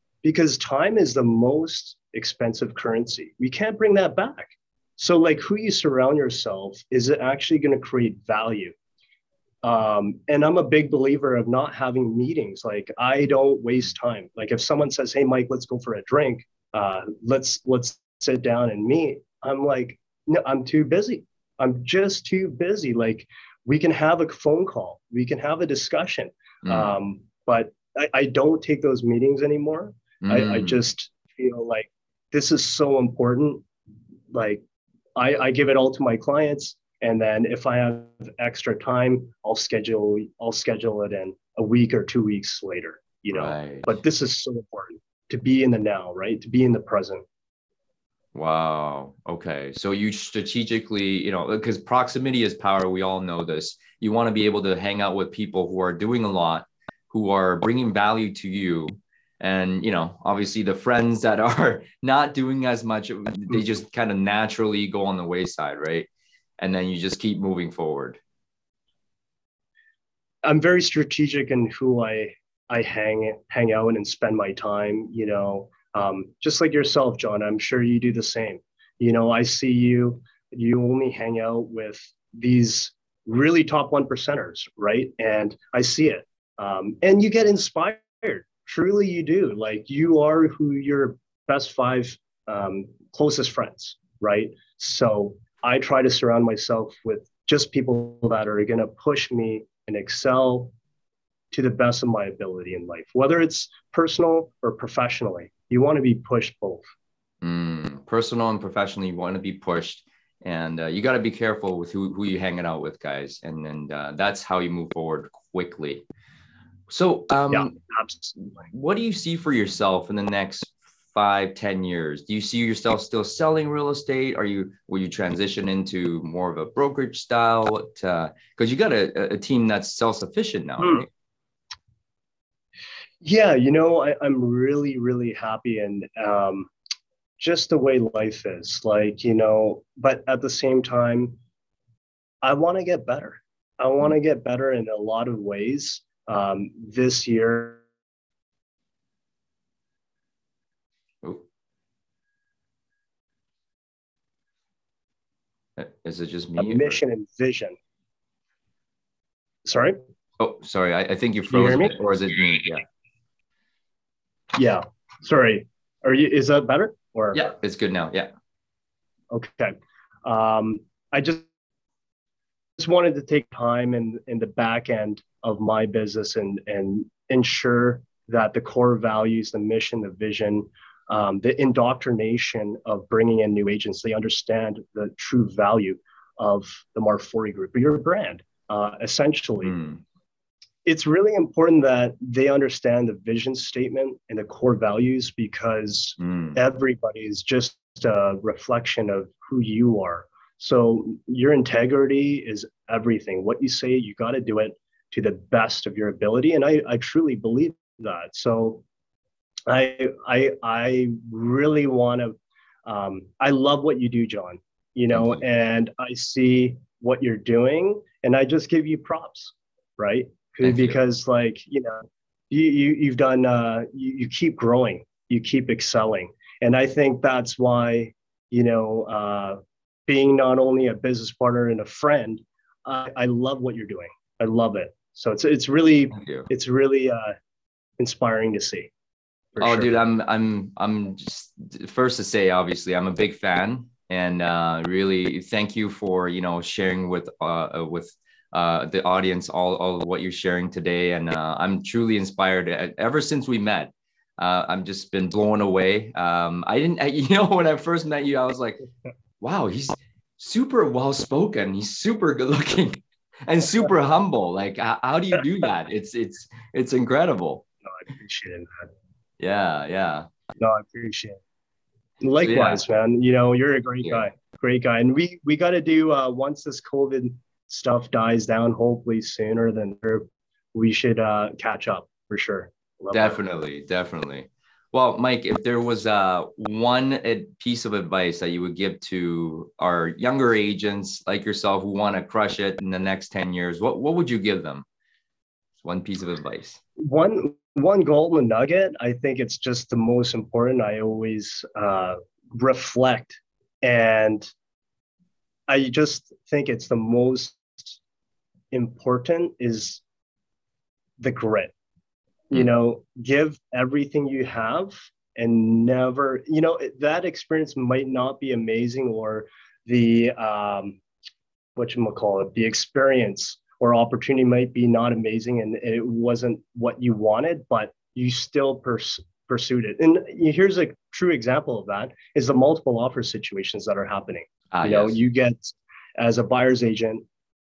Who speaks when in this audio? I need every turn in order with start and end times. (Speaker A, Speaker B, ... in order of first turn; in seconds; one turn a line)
Speaker A: 0.2-8.7
Speaker A: 9.6-33.6
Speaker B: 26.6-26.9
Speaker B: 30.2-30.8
Speaker A: 34.3-34.6
Speaker A: 35.1-47.2
Speaker B: 43.3-43.9
Speaker B: 48.3-66.1
Speaker B: 66.6-68.2
Speaker A: 70.4-100.7
Speaker A: 101.5-106.8
Speaker B: 107.4-116.0
Speaker B: 116.9-117.7
Speaker A: 117.5-118.7
Speaker B: 118.4-131.1
Speaker A: 130.8-131.0
Speaker A: 133.2-136.7
Speaker A: 137.4-141.4
Speaker A: 142.4-147.8
Speaker B: 155.8-157.0
Speaker A: 156.6-157.8
Speaker A: 159.6-160.0
Speaker B: 160.4-162.8
Speaker A: 161.5-161.9
Speaker A: 164.5-167.4
Speaker B: 167.3-168.3
Speaker A: 169.3-171.5
Speaker A: 172.8-189.8
Speaker B: 189.6-190.0
Speaker A: 190.8-208.8
Speaker B: 196.2-196.6
Speaker A: 209.7-237.3
Speaker B: 215.1-215.4
Speaker B: 220.6-221.0
Speaker B: 236.1-236.5
Speaker A: 238.0-238.9
Speaker A: 239.5-239.9
Speaker B: 239.6-258.8
Speaker B: 259.4-267.6
Speaker A: 267.9-268.9
Speaker B: 269.4-270.3
Speaker A: 270.6-271.4
Speaker A: 272.2-283.4
Speaker B: 272.4-272.8
Speaker B: 283.1-294.8
Speaker B: 295.8-296.8
Speaker A: 297.0-304.5
Speaker A: 305.7-308.0
Speaker A: 308.7-310.0
Speaker A: 311.2-311.7
Speaker A: 312.5-321.0
Speaker A: 321.8-337.2
Speaker B: 334.7-335.2